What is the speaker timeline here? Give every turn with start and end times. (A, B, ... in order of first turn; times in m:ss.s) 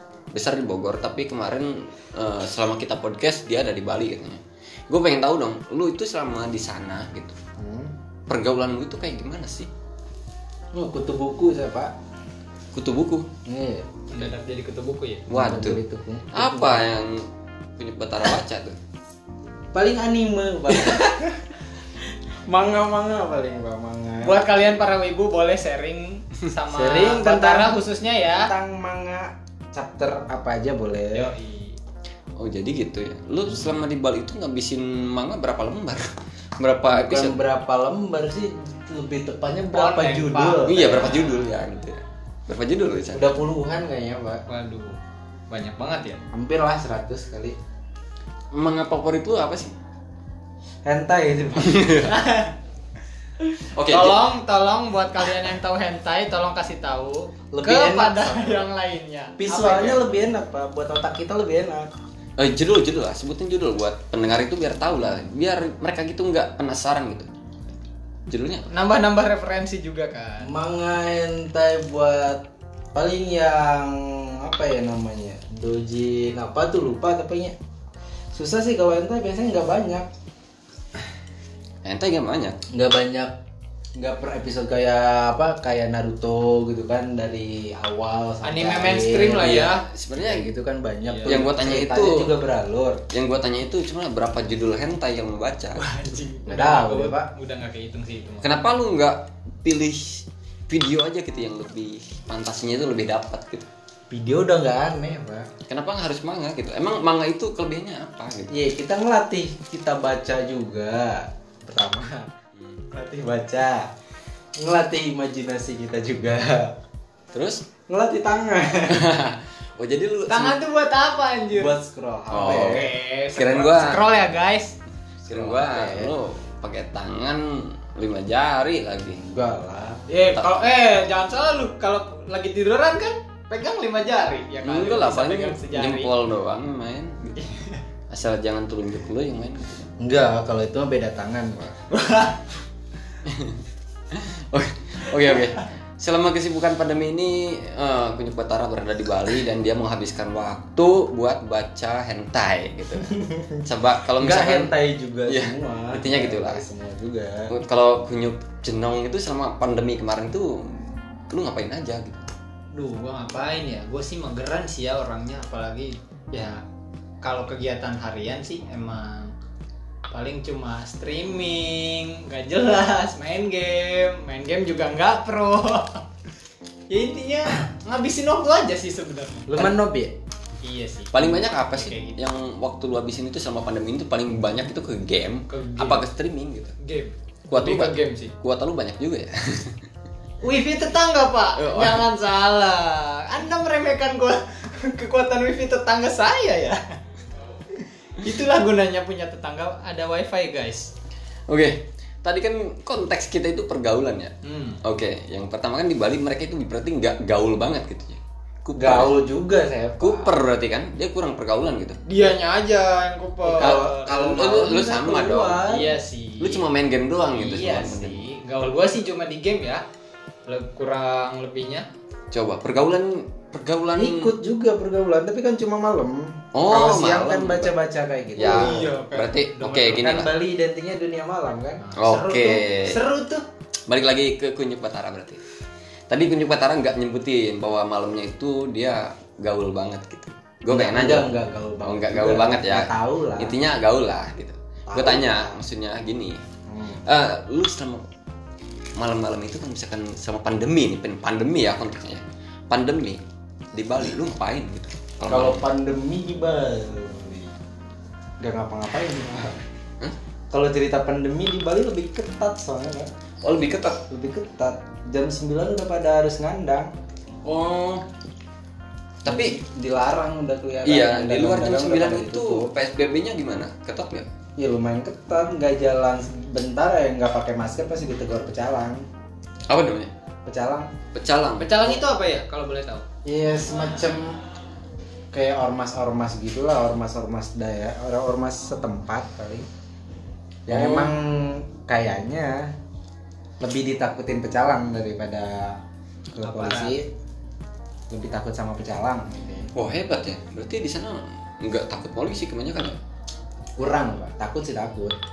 0:00.3-0:07.4 A
0:07.6-0:07.9 B
0:08.3-0:09.7 A
0:10.7-0:11.9 B
0:12.7-0:13.3 A
0:13.5-0:14.0 B
0:14.1-0:15.3 C
0:15.3-0:15.8 A
0:15.3-0:16.8 B
0:16.3-0:18.8 A
0:19.7-0:21.4 B
0:22.5-0:24.4 B
0:24.2-0:28.5 C
0:26.7-0:31.3 B
0:31.1-0:31.8 C
0:32.4-0:37.4 A
0:36.9-0:41.2 B
0:39.7-0:41.5 C
0:40.6-0:43.3 A
0:43.0-0:44.4 B
0:44.5-0:45.0 C
0:45.5-0:46.2 C
0:46.3-0:47.6 B
0:48.5-0:49.7 A
0:50.9-0:52.0 B
0:51.6-0:52.1 A
0:52.0-0:52.6 C
0:53.8-0:54.3 A
0:53.8-1:00.0 C
0:57.5-0:58.7 B
0:59.4-1:01.9 B
1:02.4-1:07.3 A
1:08.3-1:08.7 A
1:08.7-1:10.5 C
1:10.4-1:17.6 B
1:18.3-1:20.1 B
1:21.8-1:22.6 A
1:22.7-1:23.4 B
1:24.0-1:29.6 B
1:28.4-1:29.8 C
1:29.4-1:30.5 A
1:30.1-1:33.0 B
1:31.0-1:31.4 C
1:31.3-1:32.3 A
1:33.1-1:35.8 A
1:35.8-1:38.6 C
1:36.5-1:37.3 B
1:38.4-1:43.7 A
1:44.1-1:45.5 B
1:45.7-1:48.6 A
1:48.5-1:52.3 B
1:52.6-1:52.8 A
1:52.9-1:53.9 B
1:54.6-1:56.8 B
1:57.3-1:57.7 A
1:57.9-1:59.1 B
1:58.9-2:00.6 A
2:00.3-2:01.7 C
2:01.5-2:02.9 B
2:02.3-2:04.0 A
2:02.5-2:04.8 C
2:05.3-2:09.2 A
2:05.3-2:06.1 B
2:09.2-2:10.1 B
2:10.1-2:16.1 C
2:10.3-2:10.7 A
2:14.6-2:17.4 A
2:17.4-2:17.8 C
2:18.1-2:19.9 A
2:20.0-2:21.7 B
2:21.9-2:22.5 C
2:23.3-2:34.7 A
2:33.1-2:33.6 B
2:34.2-2:37.5 B
2:35.3-2:36.6 A
2:37.5-2:42.3 A
2:42.7-2:46.6 C
2:47.2-2:49.3 C
2:50.1-2:56.1 C
2:56.9-2:59.7 C
2:59.5-3:00.2 B
3:00.6-3:02.2 C
3:01.1-3:06.8 A
3:05.5-3:06.0 C
3:06.8-3:08.3 C
3:07.5-3:09.8 A
3:10.4-3:17.0 C
3:11.6-3:12.0 A
3:17.8-3:20.9 C
3:21.5-3:29.2 A
3:24.4-3:24.8 C
3:28.8-3:30.4 B
3:30.0-3:32.0 A
3:32.1-3:34.0 C
3:33.4-3:35.9 B
3:33.6-3:35.7 A
3:35.7-3:36.7 C
3:36.4-3:38.3 A
3:37.3-3:39.8 C
3:40.5-3:41.9 C
3:42.3-3:44.3 A
3:44.0-3:48.9 B
3:46.5-3:47.7 A
3:48.4-3:50.3 A
3:48.4-3:50.1 C
3:49.8-3:51.8 B
3:51.8-3:53.4 C
3:52.0-3:53.0 A
3:53.9-3:55.4 A
3:56.1-4:01.3 A
4:00.7-4:03.6 B
4:01.8-4:06.4 A
4:04.9-4:05.6 B
4:06.7-4:07.0 B
4:07.0-4:08.1 A
4:09.0-4:13.2 A
4:13.7-4:15.6 A
4:15.3-4:17.5 B
4:18.4-4:19.6 B
4:20.5-4:23.1 B
4:23.4-4:24.0 A
4:24.1-4:26.9 B
4:27.4-4:28.1 A
4:29.2-4:29.6 A
4:29.3-4:32.7 B
4:30.8-4:34.3 A
4:34.6-4:39.1 B
4:39.7-4:40.1 A
4:40.5-4:40.9 B
4:41.1-4:41.7 A
4:41.6-4:43.0 C
4:43.2-4:44.4 B
4:45.3-4:49.7 B
4:50.7-4:52.7 B
4:50.7-4:51.1 A
4:53.6-4:55.8 B
4:56.3-4:57.1 B
4:56.4-4:57.0 C
4:58.1-4:59.7 B
4:59.8-5:03.0 A
5:03.8-5:05.2 B